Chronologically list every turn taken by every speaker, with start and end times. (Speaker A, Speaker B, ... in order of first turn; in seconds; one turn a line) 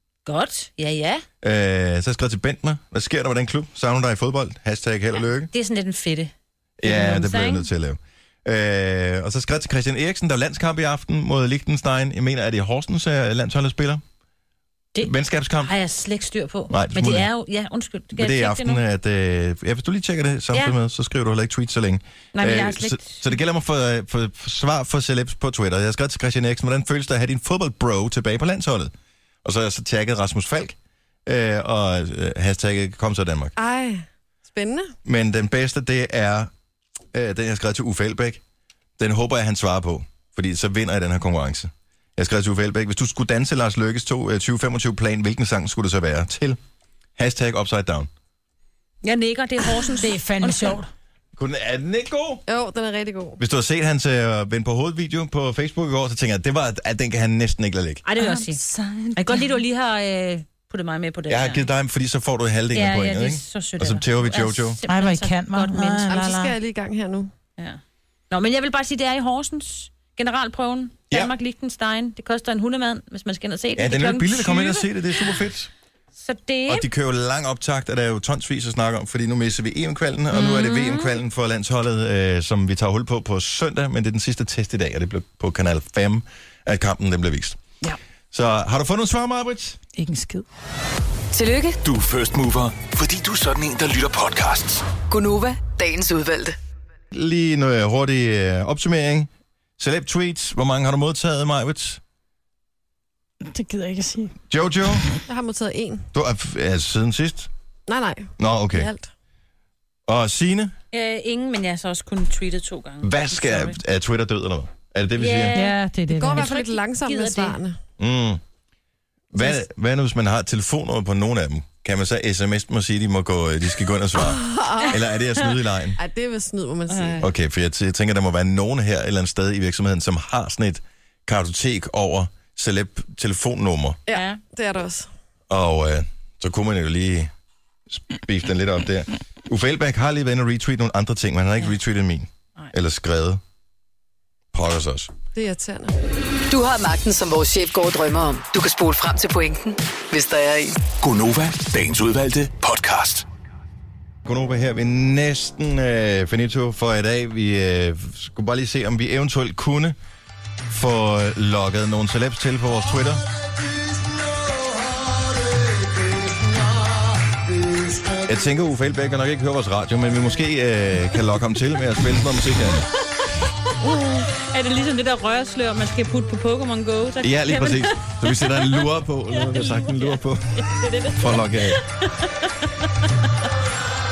Speaker A: 0.2-1.2
Speaker B: 1.4-5.5
Speaker A: 5.5-7.7
Speaker B: 6.8-14.0
Speaker B: 15.0-15.7
Speaker A: 15.6-18.8
Speaker B: 16.7-17.3
Speaker B: 18.1-28.9
Speaker A: 22.3-23.2
Speaker B: 29.4-33.5
Speaker C: 33.6-34.9
Speaker B: 35.0-36.5
Speaker B: 37.1-38.4
Speaker B: 39.0-46.6
Speaker B: 47.2-48.1
Speaker A: 49.0-50.8
Speaker D: 50.0-50.9
Speaker B: 51.4-52.4
Speaker C: 52.5-53.4
Speaker B: 53.4-58.0
Speaker A: 58.0-58.6
Speaker D: 58.2-59.5
Speaker A: 59.2-61.7
Speaker B: 61.3-64.8
Speaker A: 62.7-66.4
Speaker D: 64.9-66.5
Speaker C: 66.1-67.3
Speaker A: 67.6-75.4
Speaker B: 73.8-75.7
Speaker A: 76.2-76.9
Speaker B: 76.7-87.6
Speaker A: 80.3-81.2
Speaker B: 88.3-89.8
Speaker D: 90.0-90.4
Speaker E: 91.3-91.8
Speaker F: 91.8-95.0
Speaker E: 95.1-96.6
Speaker B: 97.1-102.0
Speaker D: 103.4-104.3
Speaker B: 104.5-105.0
Speaker C: 105.2-106.1
Speaker B: 106.1-107.5
Speaker C: 107.9-109.1
Speaker B: 108.4-108.9
Speaker B: 110.1-110.7
Speaker A: 110.9-113.8
Speaker B: 113.0-115.6
Speaker A: 115.2-115.7
Speaker D: 115.5-116.5
Speaker C: 116.1-117.8
Speaker A: 116.3-117.6
Speaker B: 118.0-118.4
Speaker B: 119.3-126.0
Speaker C: 124.2-125.0
Speaker C: 126.0-127.2
Speaker A: 126.9-127.3
Speaker B: 127.2-134.0
Speaker C: 134.1-135.1
Speaker A: 134.1-134.4
Speaker B: 135.5-137.3
Speaker B: 137.9-143.4
Speaker B: 144.5-145.1
Speaker C: 145.3-145.9
Speaker E: 146.5-150.7
Speaker F: 150.9-153.2
Speaker B: 154.2-159.9
Speaker B: 160.7-163.2
Speaker B: 168.2-172.9
Speaker A: 173.8-183.1
Speaker B: 177.2-181.8